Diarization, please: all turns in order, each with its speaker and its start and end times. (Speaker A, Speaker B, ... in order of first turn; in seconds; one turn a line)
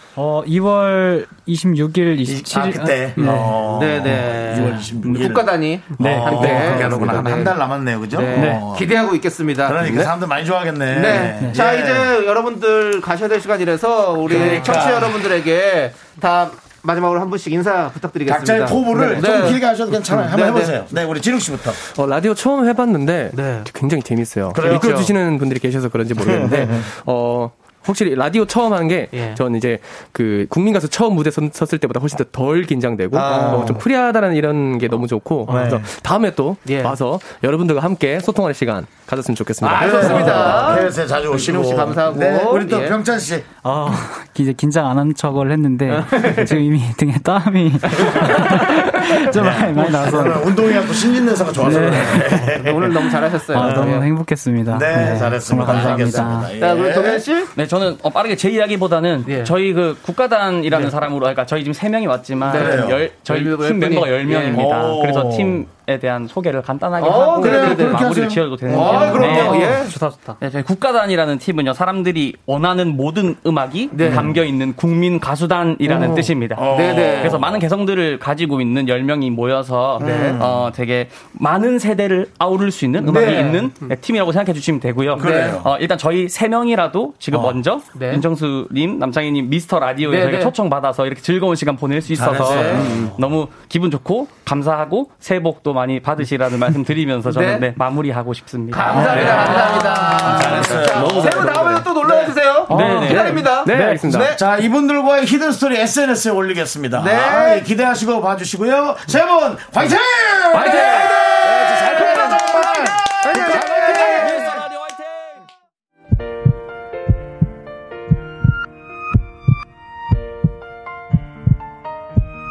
Speaker A: 0.1-4.6
Speaker B: 2.2-8.9
Speaker C: 3.2-9.8
Speaker A: 6.0-7.2
Speaker A: 8.3-8.6
Speaker B: 9.6-12.1
Speaker D: 9.8-10.1
Speaker C: 10.9-20.8
Speaker A: 11.2-11.6
Speaker B: 14.2-15.2
Speaker B: 18.3-21.8
Speaker D: 21.9-40.8
Speaker C: 23.3-23.7
Speaker B: 24.5-25.1
Speaker B: 26.2-26.9
Speaker C: 29.1-29.4
Speaker B: 33.1-33.9
Speaker B: 35.5-35.9
Speaker A: 35.5-35.9
Speaker C: 36.6-37.0
Speaker C: 39.6-43.0
Speaker B: 39.7-43.5
Speaker A: 43.6-52.6
Speaker C: 45.9-46.5
Speaker B: 49.2-53.9
Speaker C: 51.7-54.1
Speaker A: 53.1-56.5
Speaker B: 54.7-57.2
Speaker C: 55.0-57.5
Speaker E: 57.5-101.9
Speaker C: 59.2-59.5
Speaker C: 62.4-64.7
Speaker B: 62.5-63.0
Speaker B: 64.5-65.7
Speaker C: 67.0-68.1
Speaker B: 67.3-69.7
Speaker C: 68.7-69.9
Speaker C: 73.9-74.3
Speaker B: 74.0-74.4
Speaker C: 75.8-77.4
Speaker B: 76.5-77.6
Speaker B: 80.0-80.7
Speaker C: 80.0-80.4
Speaker B: 83.0-83.5
Speaker C: 83.0-83.8
Speaker B: 85.2-85.7
Speaker C: 85.2-85.6
Speaker B: 87.3-87.6
Speaker C: 87.9-88.2
Speaker C: 90.1-90.5
Speaker B: 92.1-93.2
Speaker C: 92.4-92.9
Speaker C: 97.3-97.7
Speaker C: 98.7-104.4
Speaker B: 98.9-101.4
Speaker B: 102.0-102.3
Speaker A: 102.7-103.9
Speaker E: 102.7-104.0
Speaker D: 102.8-104.3
Speaker B: 104.3-114.6
Speaker C: 107.0-107.6
Speaker E: 110.5-112.2
Speaker C: 110.5-114.6
Speaker E: 113.2-115.4